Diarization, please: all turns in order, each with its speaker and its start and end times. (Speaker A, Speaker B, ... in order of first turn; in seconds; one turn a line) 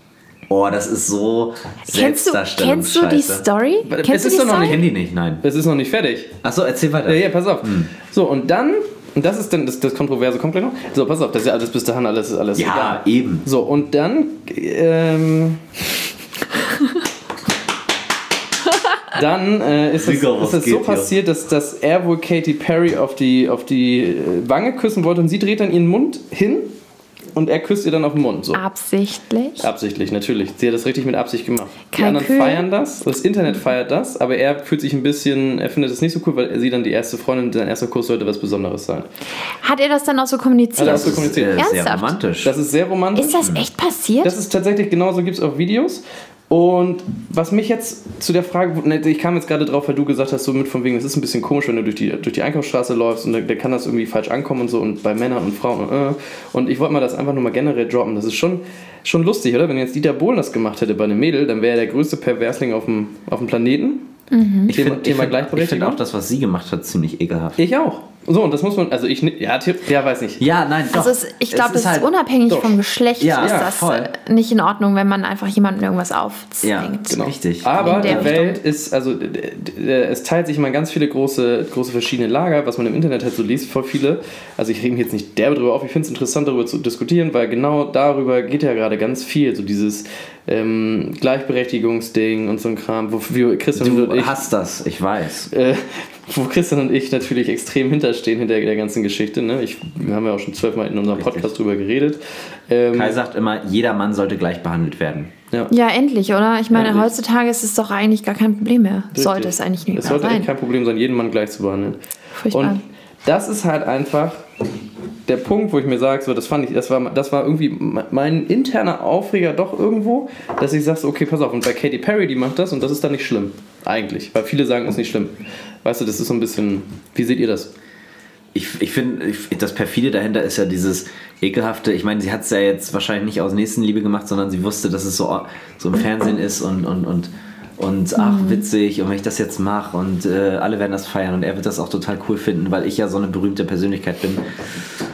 Speaker A: 0.5-3.5
Speaker B: 1.9-4.8
Speaker C: 3.9-4.8
Speaker A: 4.6-5.4
Speaker C: 5.4-6.4
Speaker A: 6.4-7.9
Speaker C: 7.1-15.6
Speaker A: 12.6-13.4
Speaker C: 19.1-26.7
Speaker A: 20.0-21.1
Speaker C: 27.4-28.6
Speaker B: 28.5-29.7
Speaker C: 29.6-39.1
Speaker B: 31.9-32.7
Speaker B: 39.6-42.1
Speaker C: 40.8-41.6
Speaker A: 40.8-42.5
Speaker C: 42.4-43.5
Speaker B: 43.1-44.4
Speaker C: 44.2-64.1
Speaker B: 64.3-64.8
Speaker A: 64.7-67.6
Speaker C: 64.7-66.0
Speaker C: 67.6-70.4
Speaker A: 70.4-72.1
Speaker B: 70.9-78.6
Speaker C: 72.5-72.8
Speaker A: 73.2-74.1
Speaker C: 73.4-73.7
Speaker A: 76.6-78.4
Speaker C: 77.1-94.4
Speaker A: 93.8-95.5
Speaker C: 95.5-103.2
Speaker A: 101.2-101.5
Speaker A: 102.9-105.3
Speaker B: 105.7-110.5
Speaker C: 106.7-107.1
Speaker C: 109.1-112.0
Speaker B: 112.4-112.8
Speaker C: 112.5-114.4
Speaker C: 115.3-127.7
Speaker A: 128.5-144.4
Speaker B: 138.2-138.7